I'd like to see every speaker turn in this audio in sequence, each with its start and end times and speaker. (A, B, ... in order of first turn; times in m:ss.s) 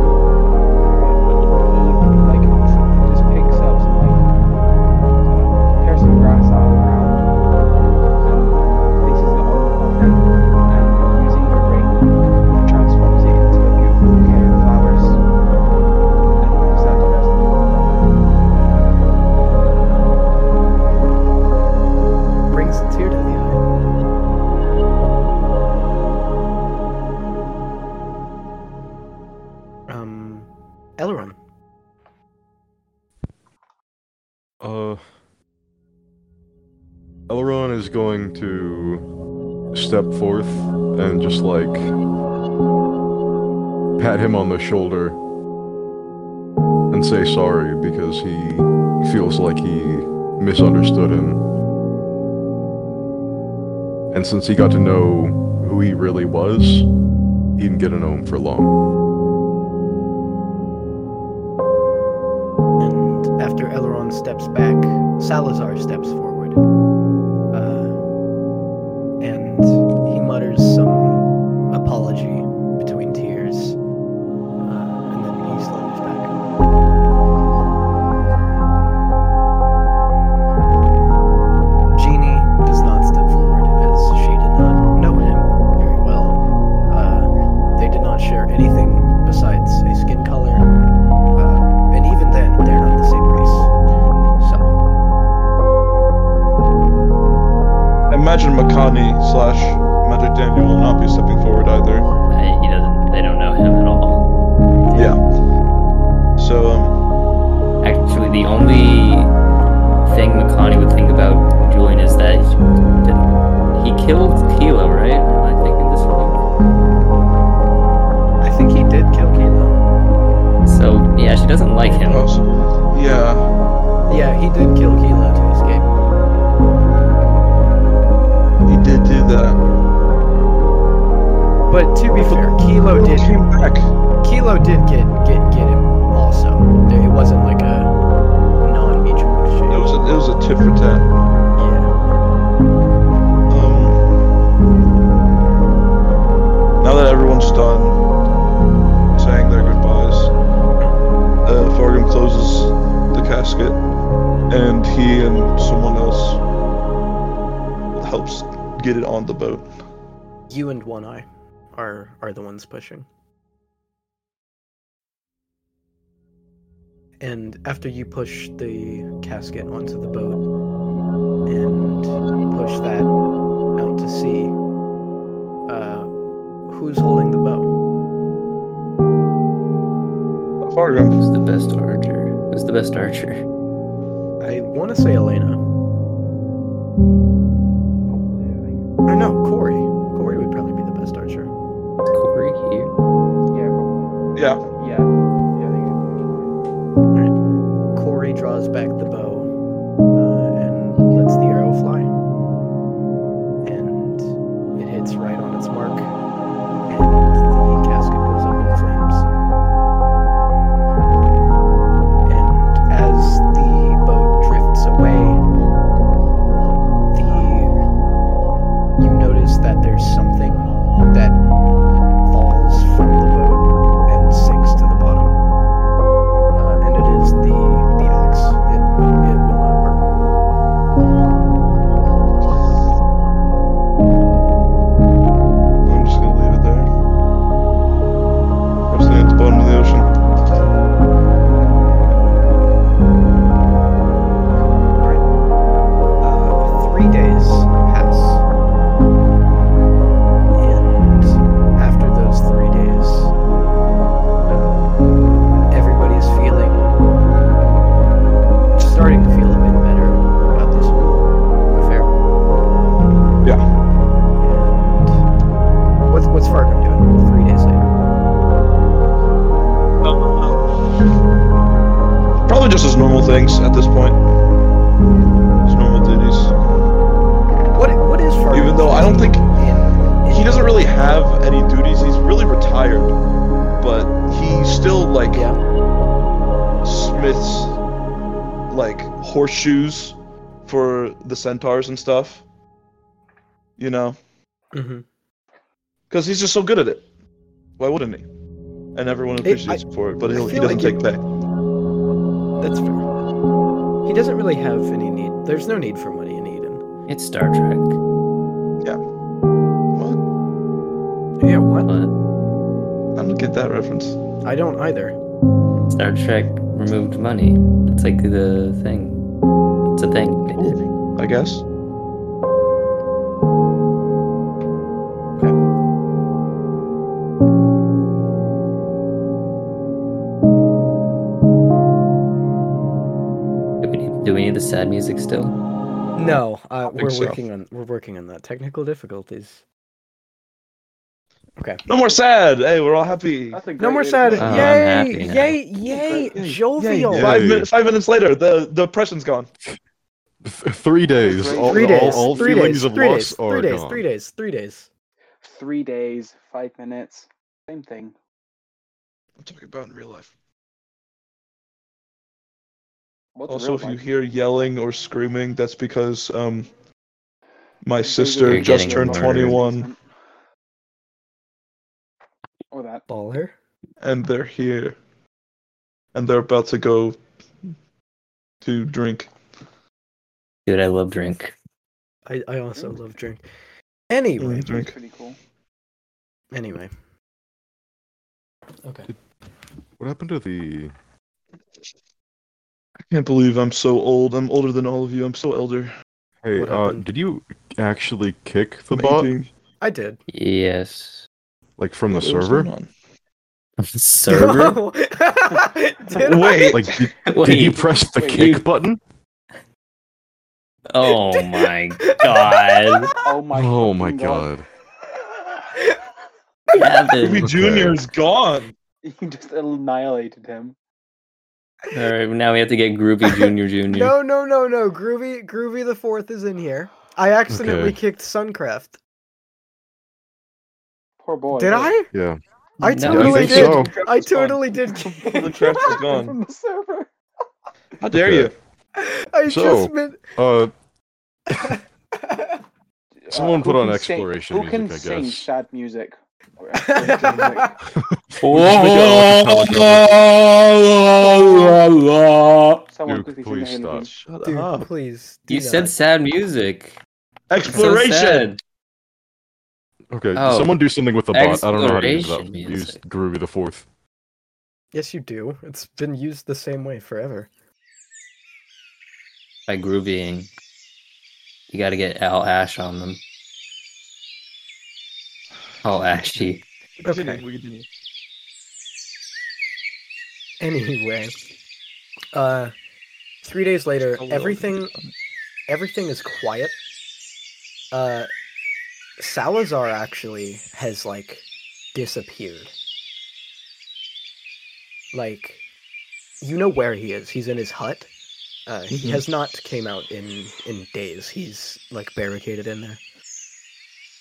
0:00.8-0:04.2 A
0:05.2-0:07.2 A
0:08.2-0:12.1 A
0:12.6-0:15.2 A
0:16.4-0:18.1 A
0:19.4-0:20.1 A
0:22.5-0:23.6 B
0:29.9-0:31.4 B
0:34.6-0:35.0 C
0:37.3-0:39.0 C
0:39.7-0:41.9 C
0:44.0-0:45.2 C
0:46.9-0:51.4 C
0:54.1-0:56.8 C
0:57.6-0:58.7 C
1:02.8-1:06.6 B
1:07.5-1:08.0 B
1:09.2-1:13.8 B
1:14.6-1:16.3 B
1:21.9-1:26.4 B
1:26.9-1:30.7 B
1:31.3-1:33.7 B
1:34.4-1:34.7 B
1:38.1-1:42.1 D
1:42.3-1:44.2 E
1:44.8-1:45.1 B
1:44.9-1:45.2 D
1:46.4-1:47.0 D
1:47.8-1:49.3 E
1:50.0-1:56.4 E
1:58.4-1:59.8 B
2:00.6-2:02.3 E
2:01.8-2:03.5 D
2:04.1-2:05.9 B
2:08.6-2:09.6 D
2:11.7-2:13.4 B
2:12.1-2:13.9 D
2:14.2-2:17.9 B
2:18.6-2:19.9 B
2:19.7-2:21.1 D
2:21.6-2:21.9 B
2:23.5-2:24.0 D
2:26.8-2:28.0 D
2:29.2-2:30.3 D
2:31.4-2:33.8 D
2:34.5-2:36.4 D
2:37.9-2:39.6 D
2:40.5-2:43.1 B
2:47.2-2:50.4 B
2:51.5-2:53.1 B
2:53.8-2:54.5 B
2:55.7-2:56.1 B
2:56.7-2:57.7 B
3:00.6-3:01.2 D
3:01.2-3:03.4 E
3:04.4-3:05.6 B
3:08.0-3:08.9 A
3:09.1-3:11.5 B
3:12.0-3:12.9 E
3:13.5-3:16.5 A
3:14.4-3:14.6 D
3:17.9-3:19.5 B
3:20.2-3:22.1 B
3:23.6-3:26.1 B
3:26.9-3:29.2 B
3:32.2-3:35.4 B
3:37.1-3:37.7 B
3:39.0-3:41.4 B
3:42.3-3:45.4 B
3:46.5-3:50.0 B
3:55.8-3:56.9 D
3:58.9-4:00.1 D
4:06.2-4:08.4 B
4:10.6-4:13.3 B
4:14.4-4:14.8 B
4:15.7-4:17.0 B
4:18.8-4:22.1 B
4:24.4-4:25.2 B
4:26.1-4:27.9 B
4:30.0-4:30.6 D
4:32.5-4:34.2 D
4:35.6-4:36.5 D
4:37.7-4:40.7 B
4:38.5-4:39.5 D
4:40.3-4:43.1 D
4:43.8-4:45.4 D
4:45.3-4:45.6 B
4:46.8-4:47.8 D
4:48.7-4:52.4 D
4:53.8-4:54.2 D
4:54.7-4:55.0 B
4:56.1-4:57.0 D
4:57.8-4:58.2 D
4:58.9-5:01.2 D
4:59.4-5:01.0 B
5:02.6-5:03.0 B
5:04.0-5:06.8 B
5:07.1-5:08.0 E
5:09.9-5:10.2 D
5:11.4-5:11.9 B
5:11.8-5:12.1 E
5:13.2-5:14.2 D
5:14.4-5:15.2 B
5:15.9-5:19.2 E
5:19.9-5:20.8 E
5:20.7-5:21.6 D
5:33.8-5:35.5 E
5:36.2-5:39.6 B
5:36.2-5:37.4 D
5:41.8-5:43.6 D
5:43.5-5:44.8 A
5:43.8-5:47.4 B
5:44.3-5:44.7 D
5:44.4-5:45.6 E
5:45.8-5:46.3 A
5:46.4-5:49.5 D
5:47.1-5:47.7 C
5:50.4-5:54.0 C
5:51.2-5:52.8 A
5:51.7-5:54.9 B
5:55.4-5:58.1 A
5:59.4-6:00.3 D
6:03.3-6:04.0 A
6:03.5-6:06.7 D
6:07.8-6:09.9 D
6:08.0-6:10.0 A
6:08.4-6:09.6 E
6:12.7-6:13.0 A
6:13.1-6:13.5 B
6:14.0-6:15.0 D
6:16.1-6:17.2 D
6:18.6-6:19.3 D
6:20.6-6:21.5 E
6:22.2-6:23.4 B
6:24.1-6:24.7 B
6:24.4-6:24.9 D
6:24.6-6:25.4 A
6:26.5-6:26.9 B
6:28.8-6:29.1 B
6:30.0-6:30.9 C
6:33.1-6:35.9 D
6:36.4-6:39.3 C
6:36.6-6:37.1 B
6:38.9-6:39.5 D
6:39.8-6:40.2 B
6:40.3-6:41.2 E
6:41.8-6:42.7 C
6:42.1-6:42.9 D
6:43.9-6:44.8 E
6:44.3-6:46.8 B
6:46.1-6:46.9 D
6:46.7-6:49.0 C
6:47.2-6:48.6 E
6:47.7-6:48.6 A
6:50.9-6:53.1 E
6:52.0-6:53.1 B
6:53.2-6:54.5 A
6:53.5-6:54.7 C
6:56.7-6:57.5 E
6:57.1-6:58.7 D
6:57.4-6:58.0 C
6:59.0-7:00.8 A
7:01.9-7:04.2 E
7:03.3-7:09.0 B
7:07.5-7:08.0 C
7:11.2-7:11.9 A
7:11.5-7:12.1 B
7:12.1-7:12.4 C
7:12.8-7:15.9 B
7:12.8-7:13.8 E
7:13.0-7:13.9 C
7:13.3-7:14.6 D
7:14.8-7:17.1 A
7:15.3-7:16.4 D
7:18.0-7:18.5 D
7:18.1-7:18.5 C
7:19.0-7:20.3 B
7:19.5-7:20.7 C
7:21.5-7:22.5 B
7:23.2-7:27.8 A
7:23.3-7:25.4 C
7:26.8-7:27.7 B
7:28.0-7:30.1 C
7:28.4-7:32.8 E
7:28.6-7:29.2 D
7:32.9-7:34.1 A
7:33.0-7:34.1 C
7:34.0-7:34.9 D
7:34.4-7:35.9 B
7:35.5-7:37.0 E
7:37.5-7:38.5 D
7:37.6-7:38.6 E
7:40.1-7:43.8 C
7:40.4-7:43.0 E
7:44.9-7:47.5 B
7:49.7-7:50.5 E
7:51.7-7:53.2 E
7:55.8-7:56.6 E
7:57.0-7:57.9 D
7:57.0-7:57.4 B
8:00.6-8:01.3 B
8:02.3-8:02.7 B
8:03.4-8:04.9 B
8:04.2-8:05.1 D
8:05.7-8:06.7 B
8:07.9-8:08.3 B
8:09.2-8:12.7 B
8:15.1-8:15.6 B
8:16.4-8:18.1 B
8:18.7-8:23.0 B
8:18.9-8:19.2 D